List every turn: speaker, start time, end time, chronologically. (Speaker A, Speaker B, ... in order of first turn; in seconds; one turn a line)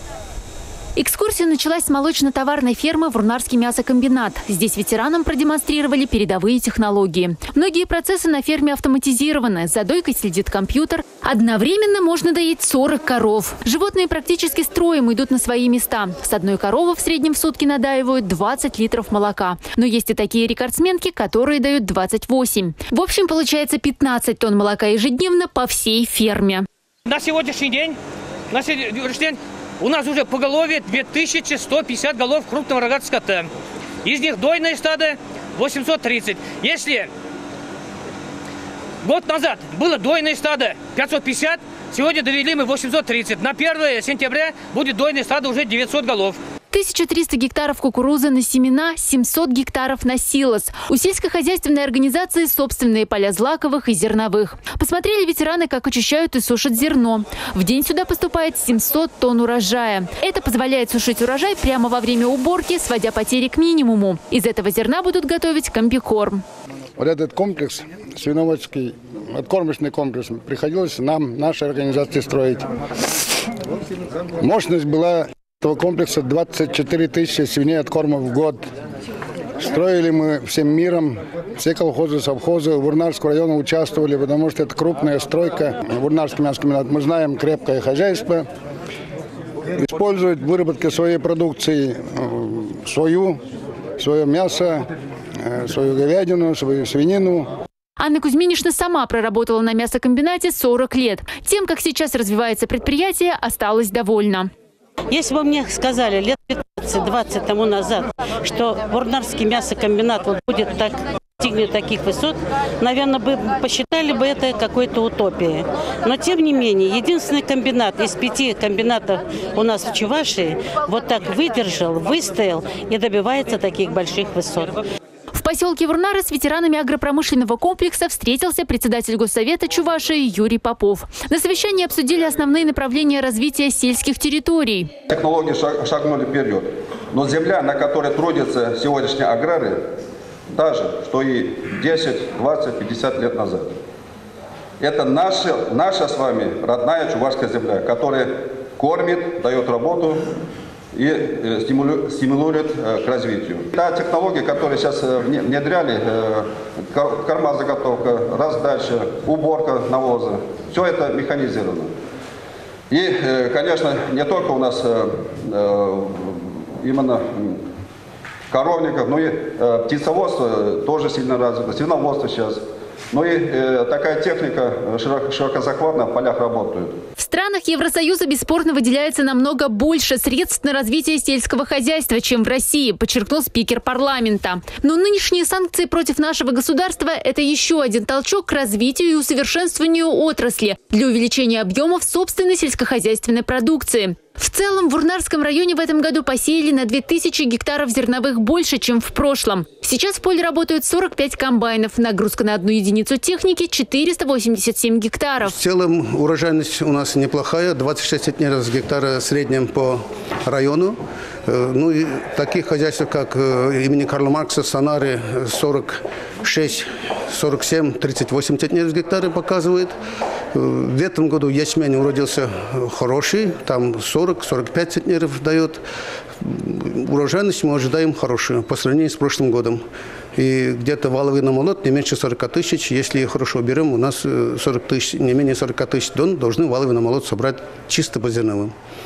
Speaker A: 0.9-26.6
Speaker B: 27.1-28.0
Speaker B: 28.5-33.5
Speaker B: 34.0-37.1
Speaker B: 39.0-46.4
Speaker A: 46.7-66.4
Speaker C: 67.0-72.6
Speaker C: 74.4-78.6
Speaker C: 79.6-88.5
Speaker C: 89.8-93.4
Speaker C: 94.0-94.8
Speaker C: 95.4-97.5
Speaker A: 98.0-104.5
Speaker D: 105.1-124.8
Speaker A: 125.3-134.9
Speaker E: 135.1-139.8
Speaker E: 140.5-143.8
Speaker E: 144.8-150.2
Speaker E: 150.9-161.9
Speaker E: 162.9-167.6
Speaker E: 168.5-176.9
Speaker A: 177.2-205.6
Speaker F: 205.4-219.9
Speaker F: 220.5-225.8
Speaker F: 226.4-229.8
Speaker F: 230.3-238.7